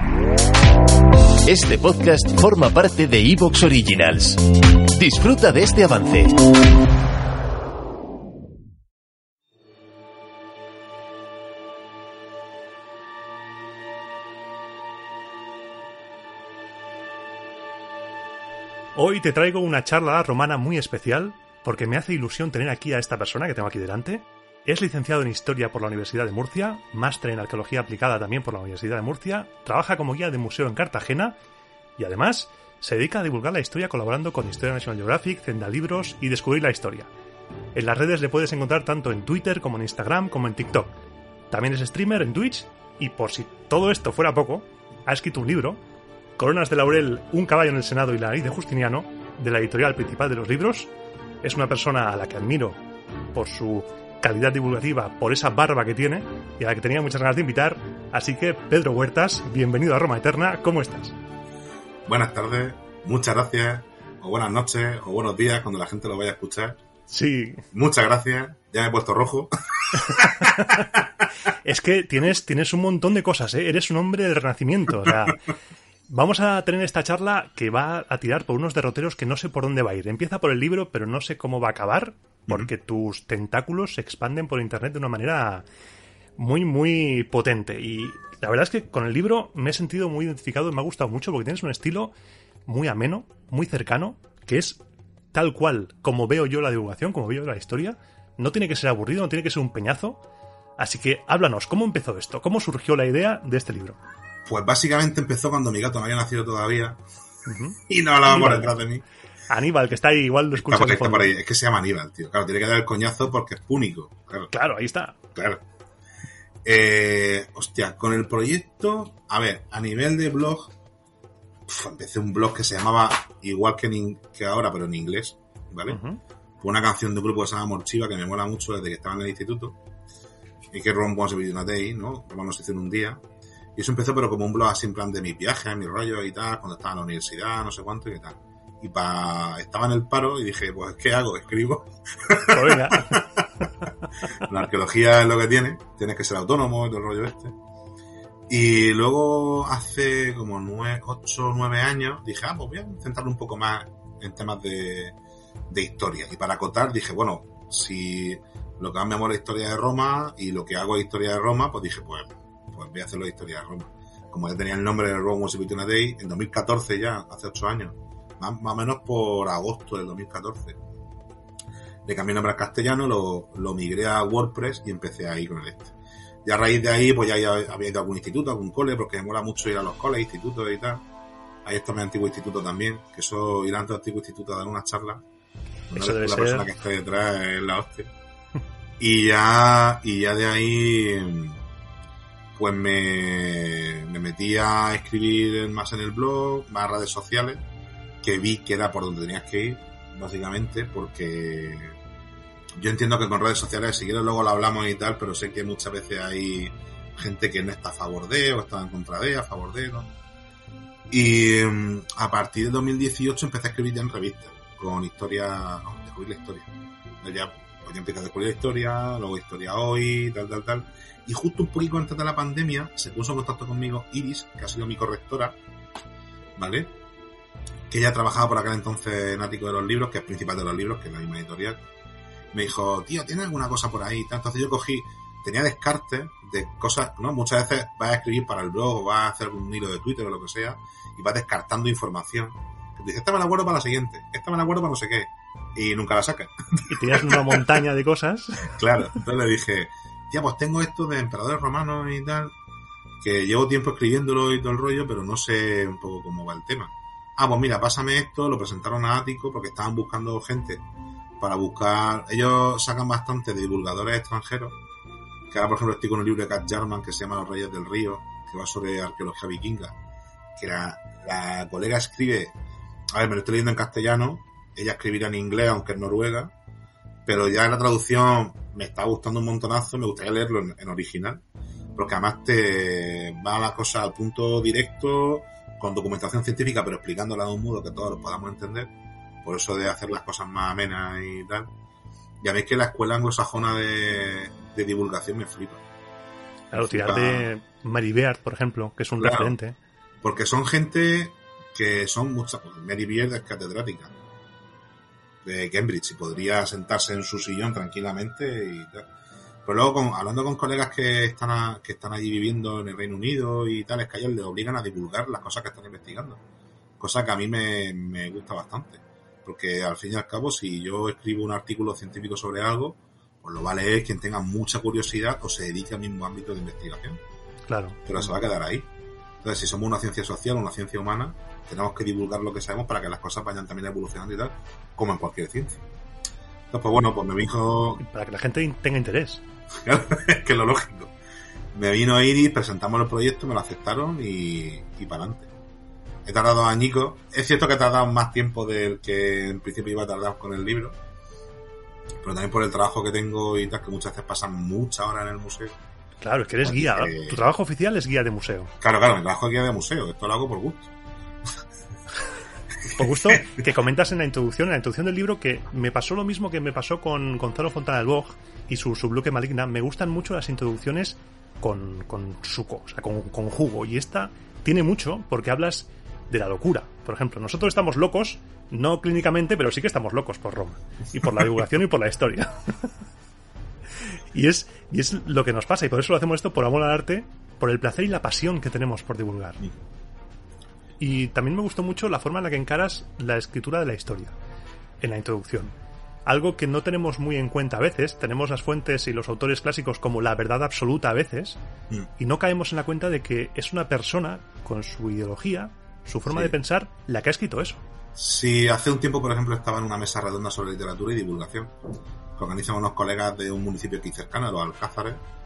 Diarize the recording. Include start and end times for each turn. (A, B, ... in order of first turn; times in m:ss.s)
0:01.4-0:06.3 A
0:18.9-0:31.4 B
0:32.0-0:37.1 B
0:37.7-0:40.9 B
0:41.5-0:45.8 B
0:46.4-0:50.9 B
0:51.4-0:52.8 B
0:53.3-1:01.1 B
1:02.1-1:06.8 C
1:07.1-1:07.6 B
1:07.7-1:11.0 C
1:10.2-1:10.8 B
1:11.6-1:15.4 B
1:16.1-1:25.6 B
1:26.4-1:32.1 B
1:32.6-1:34.8 B
1:35.3-1:40.2 B
1:40.8-1:44.0 B
1:44.4-1:47.0 C
1:47.4-1:48.7 B
1:47.9-1:49.0 C
1:49.5-1:51.3 B
1:50.5-1:54.5 C
1:54.5-1:55.2 B
1:55.3-1:55.6 C
1:56.6-2:00.7 C
2:01.7-2:06.0 C
2:05.9-2:06.2 B
2:06.6-2:09.8 C
2:10.7-2:13.2 C
2:13.8-2:23.2 C
2:22.5-2:23.2 B
2:24.3-2:27.5 C
2:28.5-2:35.2 C
2:35.7-2:50.8 C
2:52.0-2:55.9 C
2:56.4-3:01.0 C
3:01.6-3:05.2 C
3:05.9-3:08.1 C
3:05.9-3:06.7 B
3:09.0-3:11.6 C
3:12.6-3:17.6 C
3:18.2-3:22.0 C
3:22.8-3:30.1 C
3:31.1-3:45.6 C
3:46.6-3:46.9 C
3:47.9-3:51.8 C
3:52.5-4:07.6 C
4:06.9-4:08.8 B
4:08.7-4:12.5 C
4:13.2-4:20.8 C
4:21.4-4:24.8 C
4:25.5-4:30.0 C
4:30.6-4:32.6 C
4:33.1-4:36.5 C
4:37.2-4:41.4 C
4:42.0-4:48.9 C
4:49.4-4:51.7 C
4:52.4-4:55.8 C
4:56.7-4:59.8 B
4:56.7-4:57.5 C
4:59.2-4:59.6 C
5:00.2-5:04.1 C
5:05.4-5:09.0 C
5:09.6-5:16.4 C
5:17.0-5:27.2 C
5:27.6-5:28.2 B
5:28.0-5:28.9 C
5:29.4-5:35.8 C
5:36.7-5:38.0 C
5:38.0-5:39.4 B
5:39.8-5:41.1 C
5:41.7-5:45.5 C
5:46.2-5:51.0 C
5:52.2-5:55.7 C
5:56.2-5:58.7 B
5:56.6-5:57.4 C
5:58.8-6:00.9 C
6:02.9-6:22.9 B
6:24.3-6:29.6 B
6:31.0-6:34.4 B
6:35.0-6:35.7 B
6:36.2-6:41.6 B
6:42.2-6:47.8 B
6:48.2-6:51.7 C
6:52.4-6:55.2 C